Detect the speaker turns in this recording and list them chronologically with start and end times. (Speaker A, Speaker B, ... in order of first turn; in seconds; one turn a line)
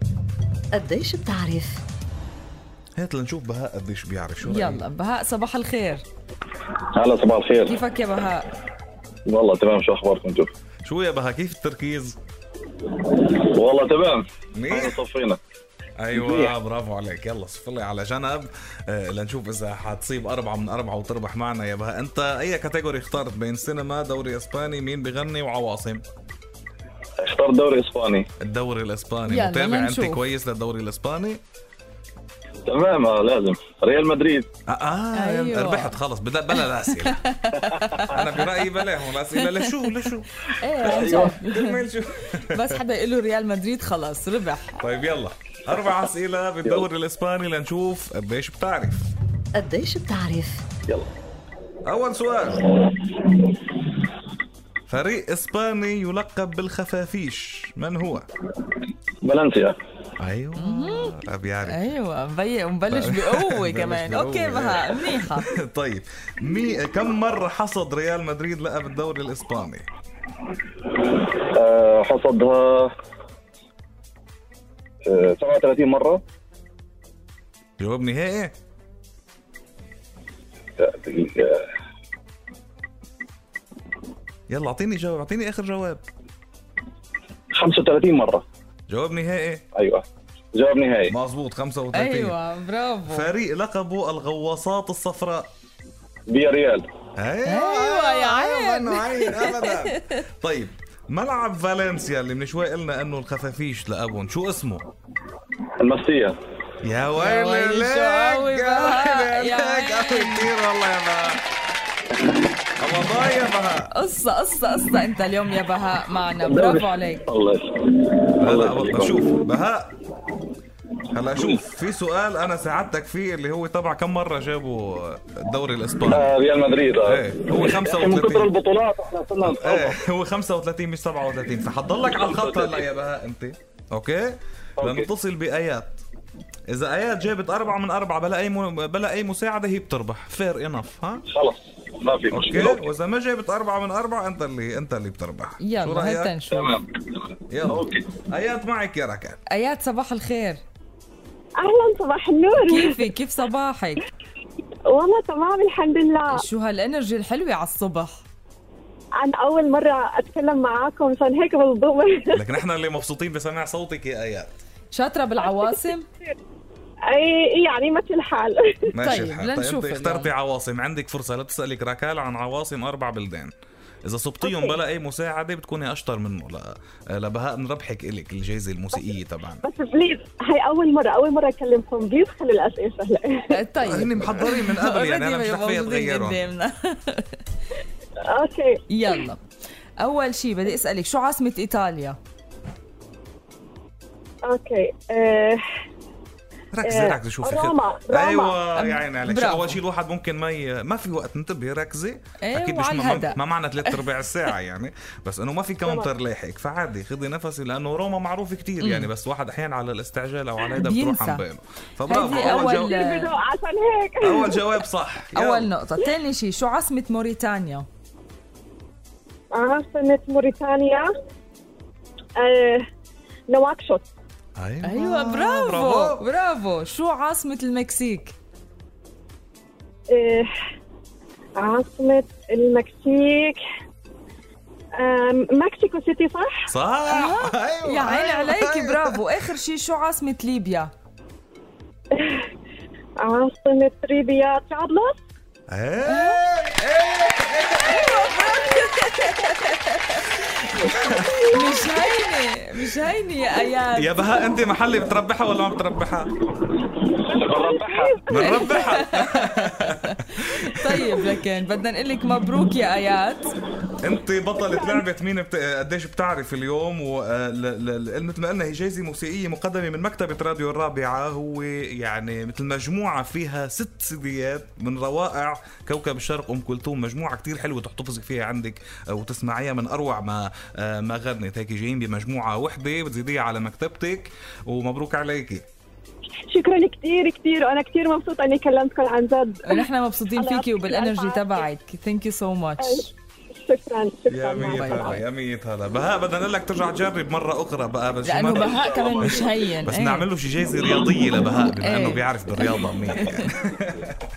Speaker A: 0.7-1.8
Speaker B: 3.0-4.8
Speaker C: 4.4-6.0
Speaker D: 6.9-7.7
Speaker C: 7.7-8.5
Speaker D: 9.3-10.5
Speaker B: 10.8-12.2
Speaker D: 13.1-15.4
Speaker B: 14.6-15.0
Speaker B: 16.0-26.0
Speaker D: 16.1-16.5
Speaker D: 27.2-28.3
Speaker B: 28.4-31.4
Speaker C: 29.3-30.2
Speaker D: 32.7-34.5
Speaker B: 34.7-37.2
Speaker C: 35.1-36.0
Speaker C: 36.5-38.8
Speaker B: 37.9-42.8
Speaker C: 39.3-41.8
Speaker D: 40.9-41.3
Speaker C: 42.5-44.8
Speaker B: 44.8-49.1
Speaker A: 49.5-50.6
Speaker B: 51.9-52.7
Speaker B: 54.9-58.3
Speaker D: 59.2-59.8
Speaker B: 60.2-61.9
Speaker C: 60.6-65.5
Speaker B: 62.9-69.9
Speaker D: 71.1-72.9
Speaker D: 75.0-76.2
Speaker B: 77.8-78.5
Speaker D: 80.8-81.7
Speaker B: 84.5-86.0
Speaker D: 87.5-88.4
Speaker B: 88.9-89.7
Speaker D: 89.8-91.2
Speaker B: 91.1-92.4
Speaker C: 91.9-93.3
Speaker B: 93.1-95.5
Speaker D: 96.3-96.9
Speaker B: 97.2-104.9
Speaker C: 97.5-100.1
Speaker D: 105.8-106.4
Speaker B: 106.8-111.4
Speaker C: 107.2-110.5
Speaker B: 112.8-113.9
Speaker C: 113.9-117.3
Speaker D: 116.4-119.2
Speaker B: 118.4-120.0
Speaker B: 121.1-126.3
Speaker D: 126.1-130.0
Speaker B: 127.0-128.5
Speaker B: 129.4-136.0
Speaker D: 132.2-132.8
Speaker D: 134.8-135.1
Speaker B: 136.7-141.3
Speaker D: 141.3-142.8
Speaker B: 142.3-146.3
Speaker C: 145.6-146.8
Speaker D: 146.5-148.1
Speaker B: 147.5-149.4
Speaker C: 149.5-150.6
Speaker E: 151.6-153.0
Speaker C: 152.7-154.1
Speaker E: 154.9-156.4
Speaker C: 156.3-158.2
Speaker E: 159.2-162.4
Speaker B: 162.3-164.6
Speaker C: 164.9-166.1
Speaker E: 165.4-166.4
Speaker E: 167.1-168.9
Speaker B: 168.9-173.5
Speaker C: 169.0-170.3
Speaker B: 174.1-179.7
Speaker E: 174.4-174.7
Speaker E: 179.6-183.6
Speaker C: 183.5-187.4
Speaker B: 183.8-186.4
Speaker E: 188.3-189.1
Speaker C: 188.9-189.4
Speaker C: 190.0-192.2
Speaker E: 194.4-195.6
Speaker B: 196.7-212.9
Speaker E: 196.9-198.7
Speaker C: 198.8-199.8
Speaker C: 202.4-204.0
Speaker C: 208.8-209.1
Speaker C: 210.8-211.4
Speaker C: 212.1-213.3
Speaker E: 212.1-214.7
Speaker B: 214.2-215.7
Speaker C: 215.3-217.9
Speaker E: 219.5-221.1
Speaker E: 222.4-222.8
Speaker E: 223.5-224.1
Speaker B: 224.6-226.3
Speaker C: 224.8-228.3
Speaker E: 230.1-230.5
Speaker E: 231.6-233.6
Speaker E: 235.0-236.7
Speaker B: 236.7-239.2
Speaker C: 237.1-240.9
Speaker E: 242.1-242.5
Speaker E: 243.2-245.2
Speaker B: 245.7-248.2
Speaker C: 246.1-246.4
Speaker C: 247.8-250.4
Speaker E: 247.8-249.4
Speaker B: 250.3-251.2
Speaker E: 250.9-252.1
Speaker C: 251.5-254.1
Speaker B: 254.0-256.3
Speaker E: 257.3-258.9
Speaker D: 257.3-258.2
Speaker B: 258.3-260.0
Speaker C: 258.4-263.5
Speaker B: 260.9-261.3
Speaker B: 264.0-285.6
Speaker E: 264.7-265.0
Speaker E: 286.5-289.8
Speaker C: 289.6-293.1
Speaker E: 290.4-291.7
Speaker E: 292.8-293.1
Speaker E: 293.6-295.2
Speaker B: 294.3-304.2
Speaker C: 294.6-295.2
Speaker C: 298.2-300.3
Speaker D: 298.7-299.3
Speaker C: 301.8-303.5